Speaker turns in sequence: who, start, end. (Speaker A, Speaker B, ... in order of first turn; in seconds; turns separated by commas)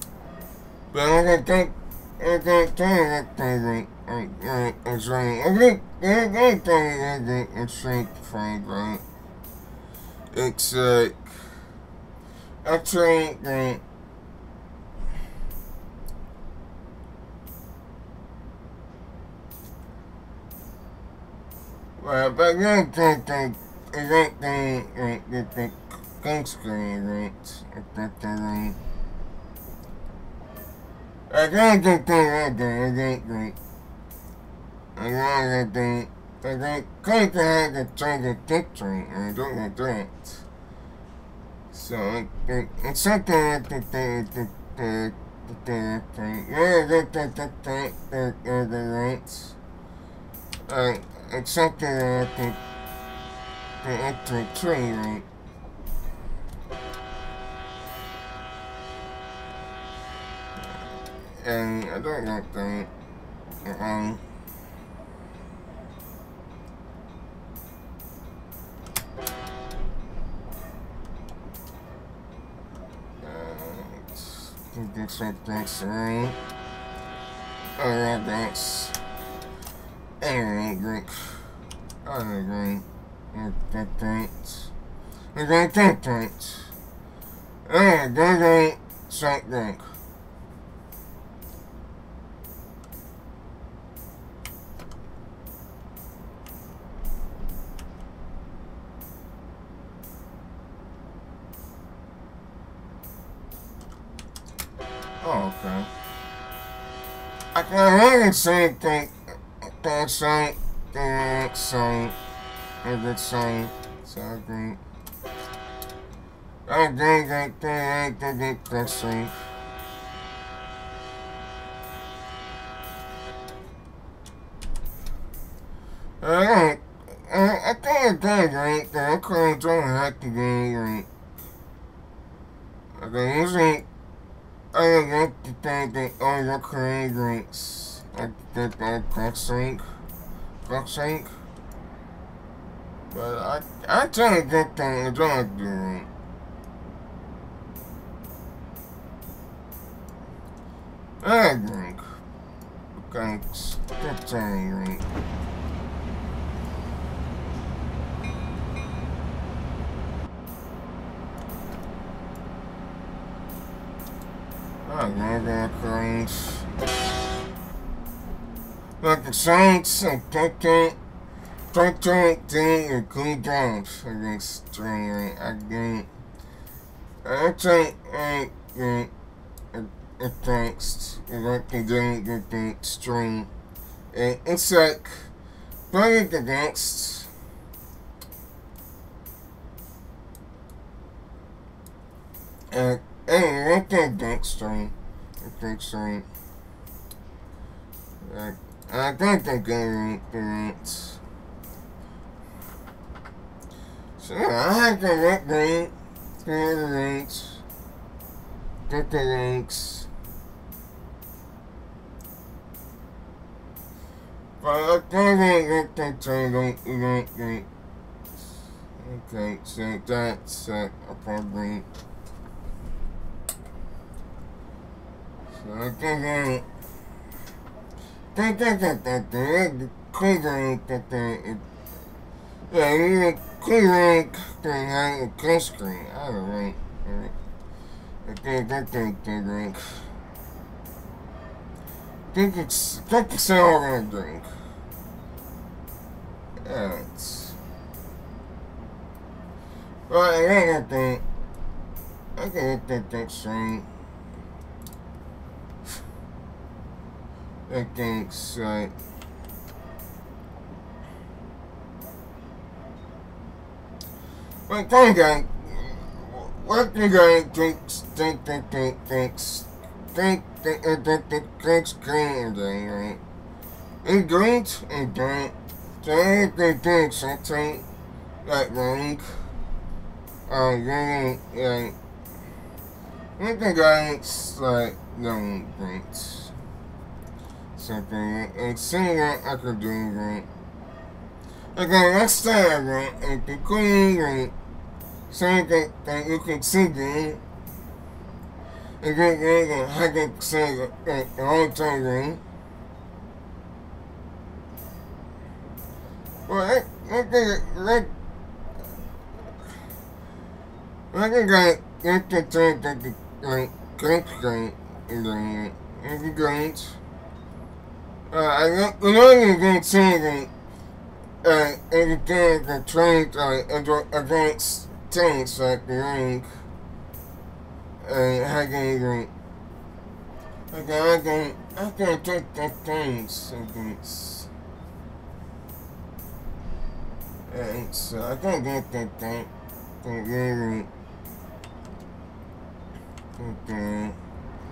Speaker A: 0.9-9.0, Speaker A: 10.3-11.4, Speaker A: 12.6-13.8, Speaker A: 22.0-28.8, Speaker A: 31.3-33.6, Speaker A: 35.0-40.4, Speaker A: 41.7-49.6, Speaker A: 50.7-52.6, Speaker A: 53.8-55.3, Speaker A: 61.4-62.9, Speaker A: 63.6-64.2, Speaker A: 73.2-76.4, Speaker A: 77.8-79.0, Speaker A: 80.2-81.4, Speaker A: 82.0-84.7, Speaker A: 85.3-86.7, Speaker A: 87.7-89.9, Speaker A: 105.2-105.9, Speaker A: 107.5-112.2, Speaker A: 112.8-114.8, Speaker A: 116.7-119.3, Speaker A: 126.2-131.1, Speaker A: 133.0-133.9, Speaker A: 134.7-139.8, Speaker A: 140.7-141.3, Speaker A: 143.1-146.1, Speaker A: 151.2-152.0, Speaker A: 153.0-155.1, Speaker A: 164.8-166.9, Speaker A: 169.0-171.0, Speaker A: 171.7-176.1, Speaker A: 177.2-179.1, Speaker A: 179.7-183.5, Speaker A: 184.1-185.3, Speaker A: 185.9-187.3, Speaker A: 192.7-196.3, Speaker A: 198.2-201.2, Speaker A: 204.2-207.6, Speaker A: 208.9-210.1, Speaker A: 214.6-217.7, Speaker A: 219.0-221.9, Speaker A: 225.5-226.7, Speaker A: 228.3-231.7, Speaker A: 232.7-237.3, Speaker A: 238.2-239.9, Speaker A: 242.3-244.5, Speaker A: 246.6-247.6, Speaker A: 250.1-251.2, Speaker A: 252.4-253.9, Speaker A: 257.7-258.9, Speaker A: 264.7-273.2, Speaker A: 274.0-277.9, Speaker A: 278.4-279.3, Speaker A: 280.5-282.0, Speaker A: 283.4-286.5, Speaker A: 287.8-290.5, Speaker A: 291.8-294.5, Speaker A: 295.3-297.4, Speaker A: 299.0-302.4, Speaker A: 306.5-308.1, Speaker A: 311.1-317.0, Speaker A: 318.3-320.5, Speaker A: 321.4-326.5, Speaker A: 328.0-329.3, Speaker A: 330.7-334.5, Speaker A: 337.5-339.5, Speaker A: 340.0-340.9, Speaker A: 343.4-344.2